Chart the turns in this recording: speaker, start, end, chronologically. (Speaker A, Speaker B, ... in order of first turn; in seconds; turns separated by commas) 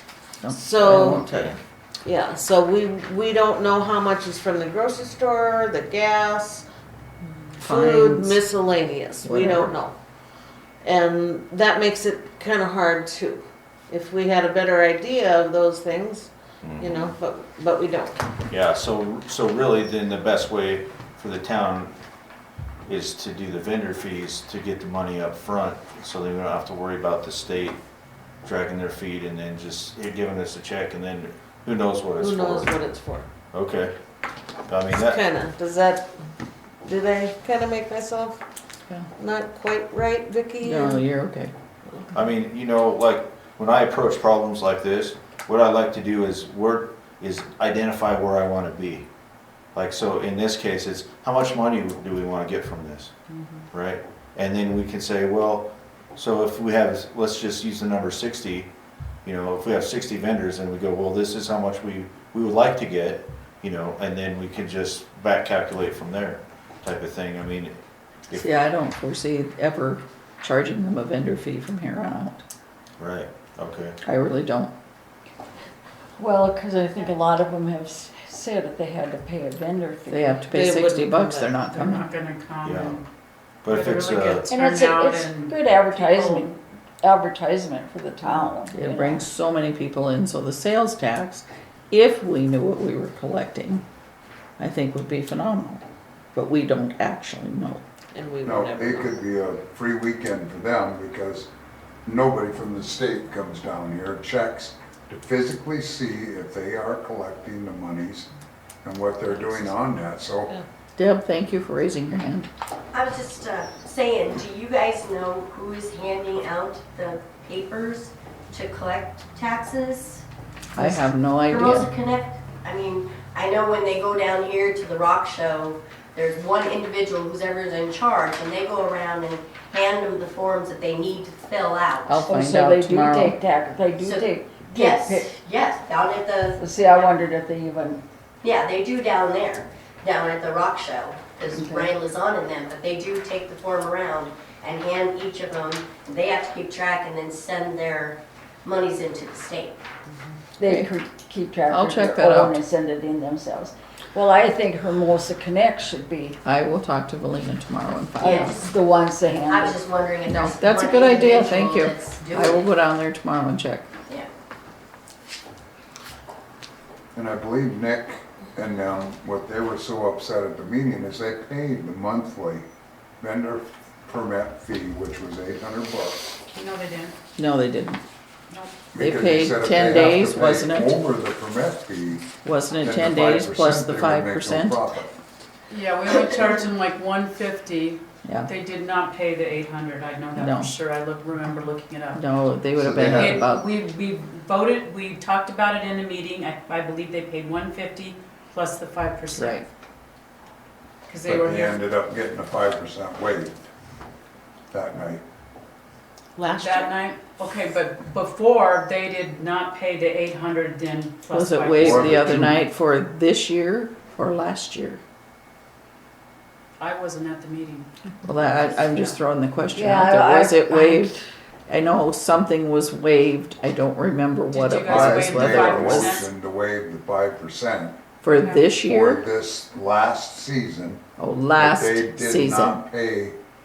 Speaker A: 0.4-1.6, Speaker B: 0.5-6.6, Speaker B: 7.6-9.9, Speaker A: 7.6-8.4, Speaker A: 9.2-9.8, Speaker B: 10.8-18.2, Speaker C: 16.6-17.1, Speaker C: 18.5-21.9, Speaker C: 22.8-27.8, Speaker C: 28.4-32.9, Speaker B: 32.2-33.3, Speaker C: 33.5-34.0, Speaker C: 34.6-35.2, Speaker B: 34.9-36.1, Speaker B: 36.8-38.4, Speaker B: 39.2-41.1, Speaker A: 40.6-41.5, Speaker C: 42.1-49.1, Speaker C: 49.7-53.1, Speaker D: 53.3-53.6, Speaker C: 53.7-58.7, Speaker C: 59.2-68.5, Speaker A: 68.3-72.4, Speaker C: 73.0-74.0, Speaker A: 74.0-74.7, Speaker E: 76.2-80.5, Speaker A: 80.1-82.1, Speaker B: 80.5-81.5, Speaker D: 81.5-83.0, Speaker C: 82.6-83.0, Speaker C: 83.6-84.5, Speaker D: 83.7-86.5, Speaker E: 84.5-89.3, Speaker A: 88.7-93.8, Speaker A: 94.6-95.8, Speaker A: 96.3-97.8, Speaker B: 98.1-99.2, Speaker F: 98.4-101.5, Speaker F: 102.0-108.3, Speaker F: 108.8-110.5, Speaker B: 109.3-109.6, Speaker A: 111.0-112.5, Speaker G: 112.9-120.2, Speaker A: 120.8-121.9, Speaker G: 120.8-132.3, Speaker A: 132.1-133.3, Speaker E: 132.3-135.3, Speaker G: 134.0-137.1, Speaker E: 136.6-138.0, Speaker G: 138.4-149.8, Speaker E: 141.5-141.9, Speaker E: 150.6-156.4, Speaker A: 151.7-152.6, Speaker A: 156.4-158.6, Speaker E: 158.2-159.8, Speaker G: 158.2-158.7, Speaker G: 159.3-162.7, Speaker A: 160.2-163.9, Speaker E: 161.1-161.6, Speaker F: 167.1-172.7, Speaker F: 173.2-176.2, Speaker D: 176.5-177.2, Speaker A: 177.4-178.0, Speaker D: 178.5-178.8, Speaker F: 178.9-182.3, Speaker A: 179.0-181.0, Speaker A: 182.4-184.8, Speaker F: 182.8-185.2, Speaker D: 185.7-192.2, Speaker A: 188.2-188.5, Speaker A: 190.3-190.7, Speaker A: 192.1-193.7, Speaker F: 192.8-193.5, Speaker D: 193.1-199.7, Speaker A: 199.3-199.6, Speaker D: 201.1-201.8, Speaker F: 201.2-203.5, Speaker F: 204.7-205.2, Speaker B: 206.3-206.9, Speaker D: 206.6-212.2, Speaker A: 211.3-215.0, Speaker F: 211.8-212.6, Speaker D: 216.8-219.2, Speaker A: 218.2-221.2, Speaker E: 219.7-221.2, Speaker A: 221.7-226.2, Speaker D: 224.5-226.3, Speaker F: 224.8-228.0, Speaker A: 228.2-229.2, Speaker D: 228.3-228.7, Speaker F: 228.7-231.0, Speaker A: 231.2-232.8, Speaker F: 231.6-233.4